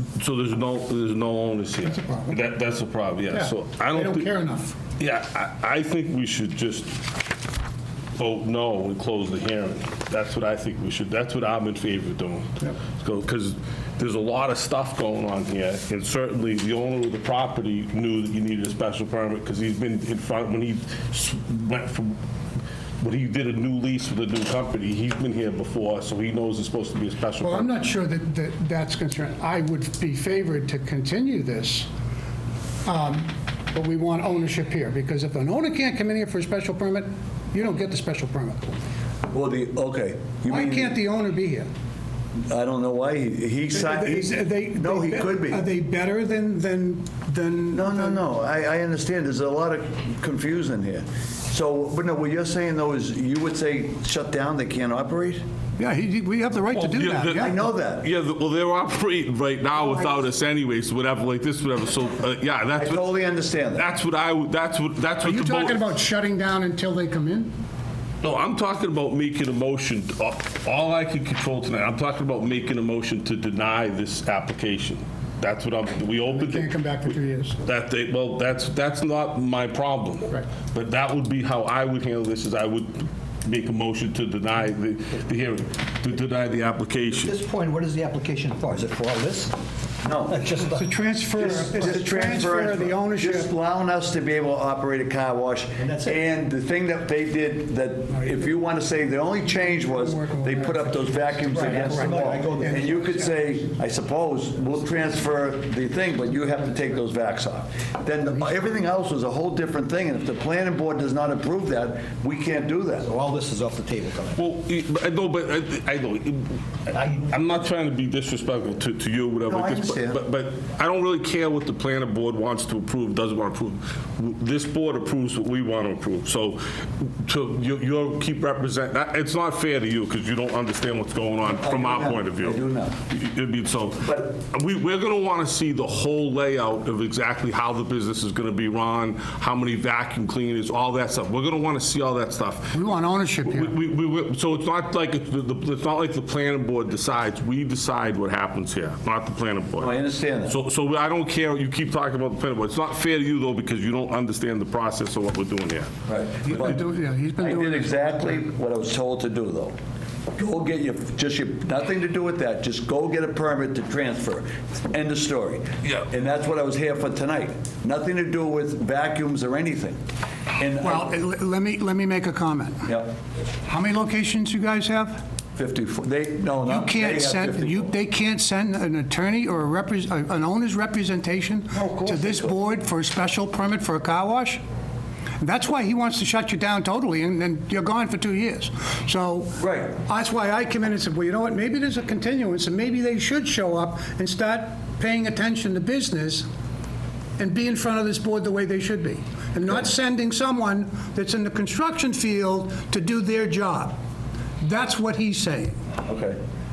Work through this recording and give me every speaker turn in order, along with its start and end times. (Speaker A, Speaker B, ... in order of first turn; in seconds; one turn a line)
Speaker A: 0.1-4.3
Speaker B: 1.8-2.4
Speaker B: 3.3-4.8
Speaker A: 5.0-6.9
Speaker A: 8.2-22.2
Speaker A: 23.0-27.7
Speaker B: 27.4-31.9
Speaker B: 32.8-38.8
Speaker C: 39.3-41.0
Speaker B: 40.5-41.7
Speaker C: 42.5-45.6
Speaker B: 43.7-48.2
Speaker C: 47.7-55.4
Speaker B: 55.8-57.5
Speaker A: 56.7-63.0
Speaker C: 57.4-58.0
Speaker C: 62.8-63.9
Speaker A: 63.7-65.8
Speaker B: 65.2-67.5
Speaker A: 68.2-87.3
Speaker B: 76.3-77.6
Speaker D: 87.2-89.6
Speaker C: 90.0-90.5
Speaker D: 90.3-90.9
Speaker B: 90.7-93.5
Speaker C: 91.3-113.1
Speaker D: 95.8-96.2
Speaker B: 99.4-103.4
Speaker D: 101.5-103.3
Speaker D: 113.1-114.4
Speaker A: 114.3-142.8
Speaker D: 116.9-117.2
Speaker C: 119.5-120.2
Speaker C: 131.4-133.0
Speaker C: 134.0-134.3
Speaker B: 142.7-143.8
Speaker A: 143.4-155.9
Speaker C: 149.8-150.6
Speaker C: 156.1-156.8
Speaker B: 156.4-158.4
Speaker C: 157.4-159.8
Speaker C: 160.3-170.0
Speaker A: 165.8-166.1
Speaker C: 170.6-171.1
Speaker B: 170.8-172.8
Speaker C: 172.8-173.1
Speaker B: 173.7-175.2
Speaker C: 175.6-177.9
Speaker B: 176.7-184.6
Speaker C: 181.7-182.6
Speaker B: 185.4-196.4
Speaker C: 189.6-189.9
Speaker B: 197.4-204.0
Speaker B: 204.6-205.8
Speaker C: 206.0-206.4